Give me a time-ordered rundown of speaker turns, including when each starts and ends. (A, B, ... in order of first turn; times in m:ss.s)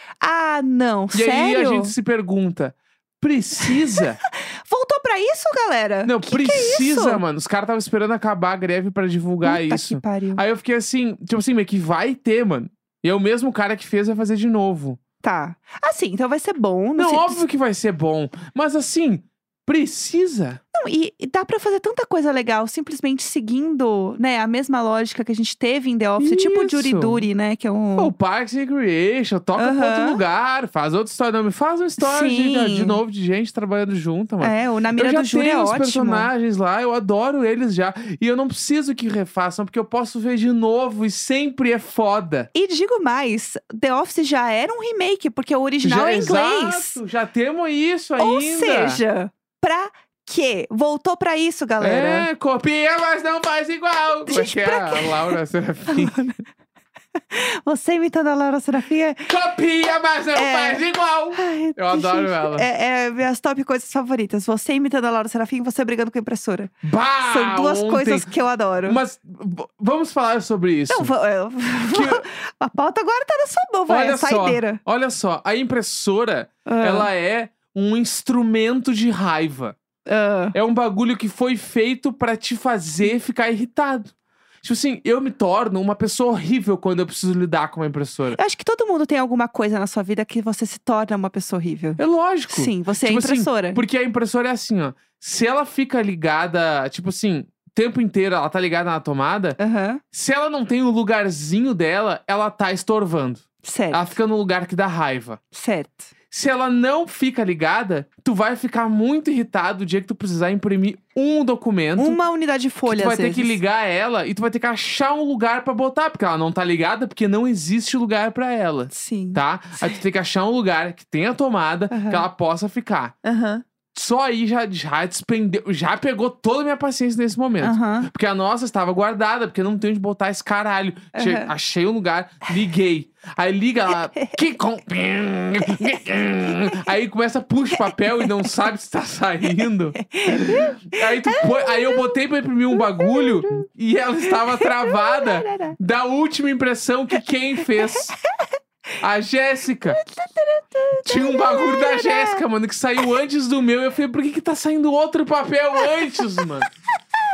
0:00.2-0:01.9 A
0:01.1-0:04.2 B
0:03.6-0:07.2 A
0:06.0-0:15.0 B
0:09.4-0:10.4 A
0:15.2-0:17.4 A
0:17.0-0:20.6 B
0:20.7-0:28.1 A
0:26.2-0:27.2 B
0:28.0-0:42.5 B
0:29.6-0:30.2 A
0:32.0-0:33.0 A
0:34.4-0:36.3 A
0:42.5-0:47.0 A
0:45.8-0:49.0 B
0:48.2-0:52.3 A
0:51.8-0:56.3 B
0:54.2-0:56.4 A
0:57.3-0:59.3 A
0:59.3-1:02.6 B
1:00.3-1:06.7 A
1:06.8-1:08.3 B
1:07.2-1:09.0 A
1:08.8-1:11.1 B
1:10.9-1:14.8 A
1:11.9-1:12.2 B
1:13.9-1:19.8 B
1:16.6-1:17.1 A
1:20.0-1:20.6 A
1:20.5-1:28.4 B
1:28.3-1:33.8 A
1:32.0-1:39.6 B
1:39.6-1:40.0 A
1:40.1-1:45.4 B
1:43.6-1:44.1 A
1:45.5-1:46.1 A
1:46.3-1:52.2 B
1:52.0-1:53.6 A
1:52.8-2:03.1 B
1:58.9-2:00.0 A
2:01.9-2:02.3 A
2:03.2-2:03.6 A
2:03.9-2:28.1 B
2:07.6-2:08.1 A
2:11.1-2:11.5 A
2:19.9-2:22.1 A
2:22.7-2:23.6 A
2:24.3-2:25.8 A
2:27.9-2:28.4 A
2:29.0-2:30.0 B
2:29.9-2:32.4 A
2:31.0-2:36.7 B